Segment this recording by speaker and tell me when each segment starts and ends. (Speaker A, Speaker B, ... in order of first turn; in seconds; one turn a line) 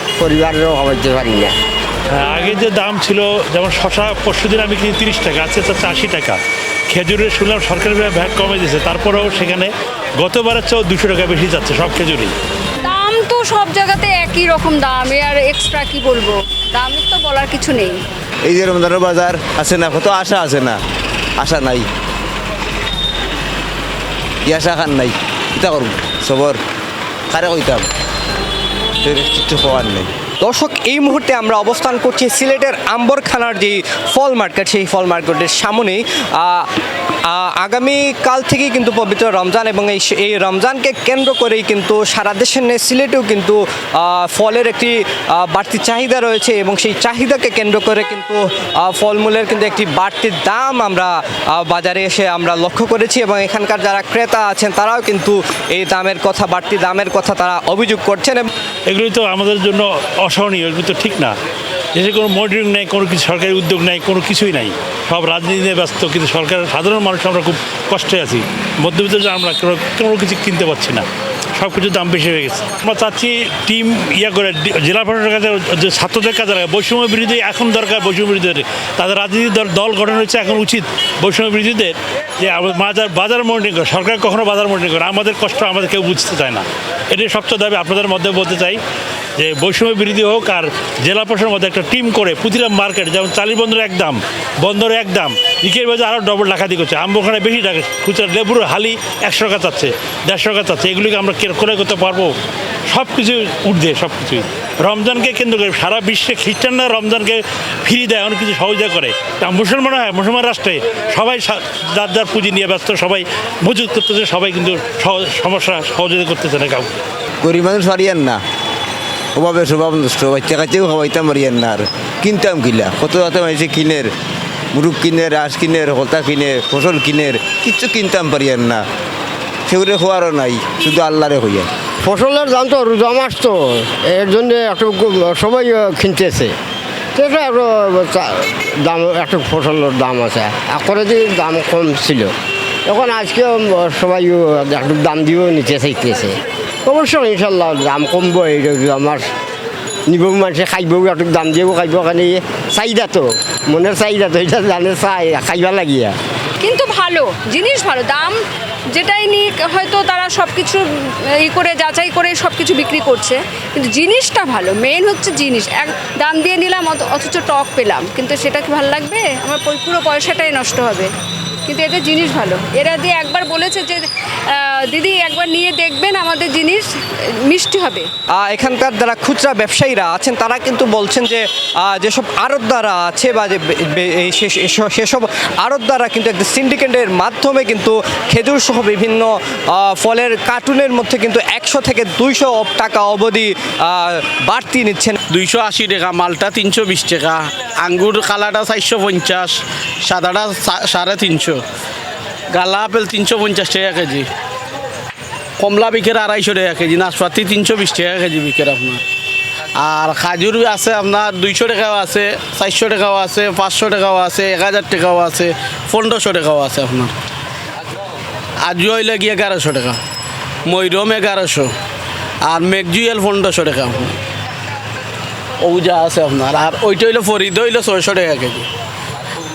Speaker A: 0.2-1.5
Speaker B: 2.1-12.3
Speaker C: 12.8-17.9
Speaker D: 18.5-20.8
Speaker D: 21.4-21.8
Speaker D: 24.4-26.6
Speaker D: 27.3-27.9
Speaker D: 29.0-30.1
Speaker E: 30.4-36.7
Speaker E: 37.3-58.5
Speaker B: 58.9-61.3
Speaker B: 61.9-71.1
Speaker B: 71.6-88.8
Speaker B: 89.4-102.3
Speaker B: 102.9-117.0
Speaker D: 117.4-118.4
Speaker D: 119.4-124.1
Speaker D: 124.7-128.8
Speaker D: 129.7-131.7
Speaker A: 132.0-136.5
Speaker A: 137.2-142.3
Speaker A: 142.9-149.3
Speaker A: 150.1-156.2
Speaker C: 156.6-158.4
Speaker C: 158.9-171.1
Speaker C: 171.7-176.9
Speaker C: 177.5-178.1
Speaker E: 178.4-195.2
Speaker F: 195.3-201.6
Speaker F: 202.5-204.3
Speaker F: 205.6-209.0
Speaker F: 209.8-217.2
Speaker F: 218.6-220.0
Speaker F: 220.7-221.7
Speaker F: 222.4-224.2
Speaker F: 225.6-228.7